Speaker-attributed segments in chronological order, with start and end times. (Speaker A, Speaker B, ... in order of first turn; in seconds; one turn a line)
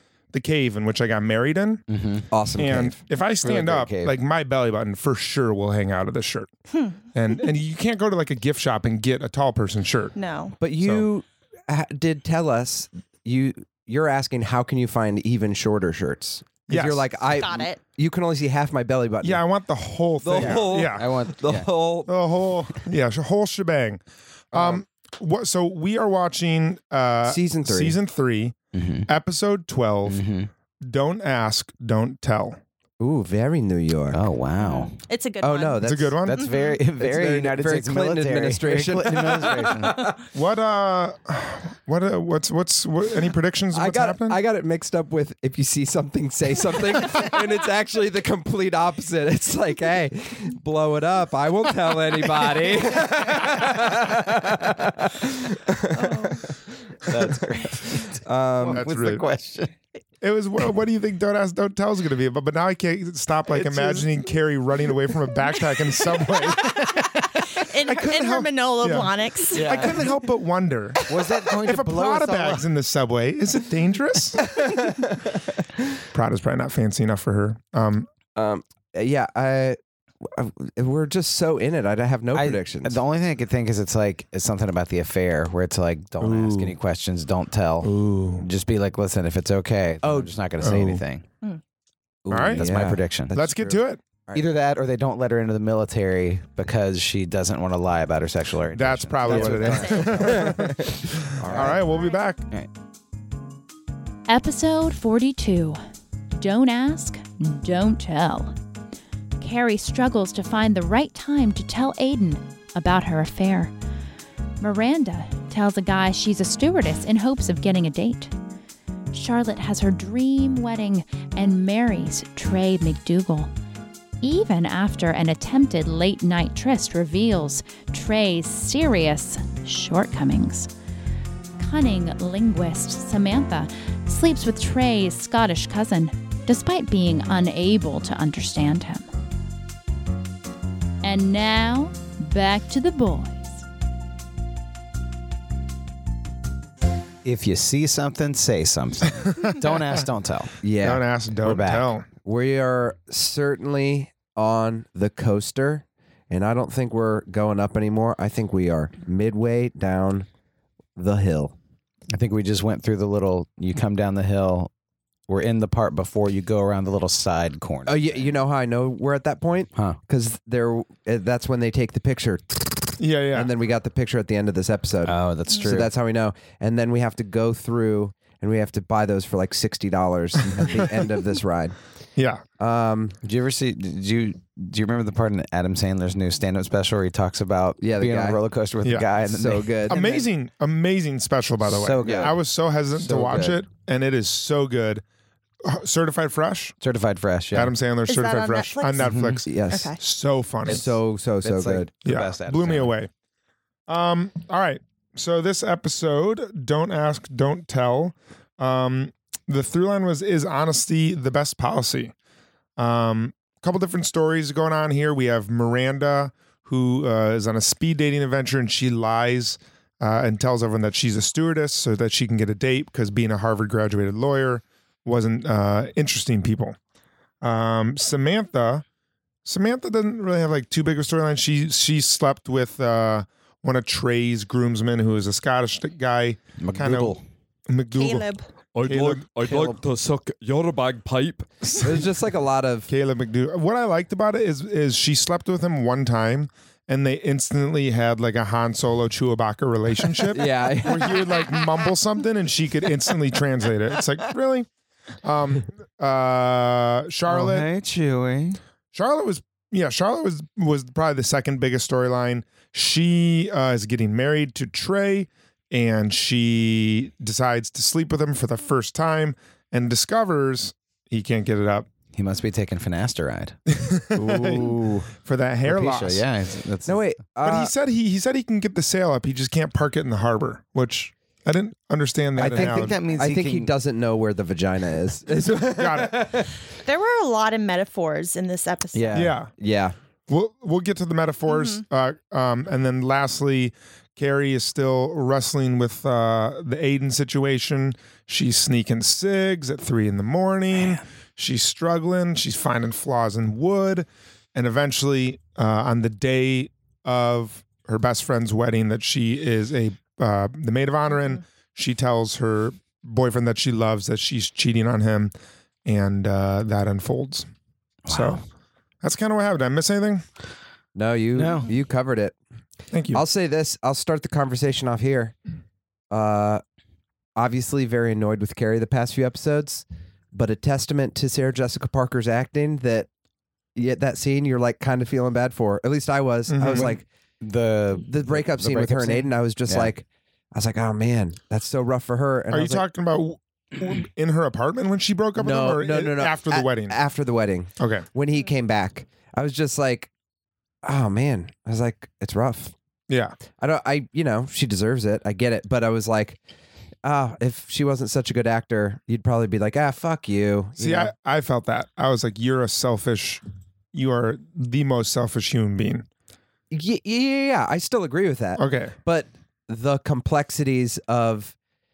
Speaker A: 0.3-1.8
Speaker B: 1.9-2.3
Speaker C: 2.3-3.0
Speaker A: 2.6-6.5
Speaker B: 3.4-4.2
Speaker D: 6.7-7.0
Speaker A: 7.1-10.2
Speaker D: 10.2-10.6
Speaker C: 10.6-19.4
Speaker A: 10.8-11.1
Speaker A: 16.7-17.1
Speaker D: 17.3-17.8
Speaker A: 19.2-21.1
Speaker C: 20.2-22.1
Speaker B: 20.3-21.7
Speaker A: 22.1-28.6
Speaker C: 24.5-24.8
Speaker C: 27.2-28.0
Speaker B: 28.7-29.1
Speaker A: 29.1-30.2
Speaker B: 30.1-30.5
Speaker A: 30.8-32.6
Speaker C: 33.0-34.2
Speaker B: 34.1-35.0
Speaker D: 34.6-35.9
Speaker C: 35.4-36.2
Speaker A: 35.8-36.5
Speaker B: 36.2-40.1
Speaker D: 36.4-36.8
Speaker C: 37.0-40.1
Speaker A: 40.3-44.4
Speaker C: 43.7-56.5
Speaker D: 55.9-56.4
Speaker B: 57.0-59.7
Speaker C: 57.1-58.9
Speaker A: 58.7-59.2
Speaker A: 60.2-74.5
Speaker B: 63.5-64.1
Speaker D: 66.6-69.7
Speaker B: 69.5-70.1
Speaker B: 71.1-72.7
Speaker C: 74.6-75.0
Speaker A: 76.1-78.1
Speaker C: 78.3-83.0
Speaker B: 82.3-91.2
Speaker C: 86.2-86.6
Speaker A: 87.8-88.5
Speaker C: 90.0-90.3
Speaker A: 90.6-91.0
Speaker B: 92.3-93.3
Speaker C: 92.3-94.5
Speaker A: 92.3-92.7
Speaker A: 93.3-94.0
Speaker B: 94.3-100.8
Speaker A: 98.8-102.4
Speaker C: 99.3-101.8
Speaker D: 99.6-100.1
Speaker D: 101.9-102.2
Speaker E: 104.3-105.8
Speaker E: 106.4-108.5
Speaker E: 109.4-113.7
Speaker E: 114.6-118.3
Speaker E: 119.1-123.5
Speaker E: 124.2-130.7
Speaker E: 131.6-139.1
Speaker E: 141.0-143.6
Speaker B: 147.2-150.6
Speaker C: 150.6-151.0
Speaker A: 150.8-152.1
Speaker B: 151.4-151.9
Speaker C: 152.2-160.3
Speaker C: 161.0-161.6
Speaker B: 162.1-164.7
Speaker B: 165.3-168.3
Speaker C: 167.8-181.8
Speaker A: 173.0-173.5
Speaker B: 175.1-175.9
Speaker A: 182.2-182.4
Speaker C: 182.6-183.2
Speaker B: 183.2-190.0
Speaker C: 187.8-188.4
Speaker C: 189.3-190.3
Speaker A: 189.9-195.0
Speaker B: 191.7-192.4
Speaker C: 192.0-192.3
Speaker B: 193.0-193.6
Speaker A: 195.6-196.8
Speaker B: 196.8-197.7
Speaker A: 197.5-200.8
Speaker D: 198.1-199.1
Speaker B: 199.0-199.4
Speaker C: 199.5-199.9
Speaker D: 199.7-200.0
Speaker C: 200.7-201.9
Speaker B: 200.7-202.9
Speaker A: 202.1-203.1
Speaker A: 203.9-212.1
Speaker A: 212.8-226.8
Speaker A: 227.4-228.8
Speaker A: 229.4-237.2
Speaker B: 236.6-237.2
Speaker A: 237.7-238.3
Speaker D: 237.9-238.5
Speaker F: 238.8-241.8
Speaker A: 238.8-239.2
Speaker B: 239.4-239.8
Speaker A: 241.6-242.1
Speaker C: 241.8-242.9
Speaker A: 242.9-254.7
Speaker C: 250.3-251.5
Speaker A: 255.2-257.7
Speaker B: 257.3-258.6
Speaker A: 258.9-271.9
Speaker B: 272.1-273.6
Speaker A: 273.7-276.2
Speaker B: 274.1-275.1
Speaker B: 275.6-277.0
Speaker C: 276.9-277.7
Speaker A: 277.4-282.9
Speaker B: 282.4-283.7
Speaker C: 282.4-286.5
Speaker A: 285.8-286.2
Speaker D: 286.8-289.2
Speaker B: 288.9-289.3
Speaker A: 289.1-289.5
Speaker C: 289.6-290.0
Speaker A: 290.3-315.3
Speaker D: 291.5-291.8
Speaker A: 315.9-317.5
Speaker B: 318.1-318.4
Speaker A: 318.1-318.4
Speaker A: 319.0-320.2
Speaker C: 320.9-322.4
Speaker B: 321.4-321.7
Speaker A: 322.9-323.2
Speaker C: 323.1-325.4
Speaker C: 326.1-326.6
Speaker C: 327.4-333.1
Speaker C: 333.8-337.0
Speaker A: 336.5-337.0
Speaker B: 336.7-339.9
Speaker C: 338.0-342.8
Speaker A: 342.5-346.9
Speaker C: 345.4-350.1
Speaker A: 347.8-348.1
Speaker C: 350.8-352.7
Speaker A: 353.1-353.4
Speaker C: 353.6-356.4
Speaker C: 357.0-361.1
Speaker A: 360.8-363.4
Speaker A: 363.9-366.1
Speaker C: 366.7-371.5
Speaker A: 368.6-368.9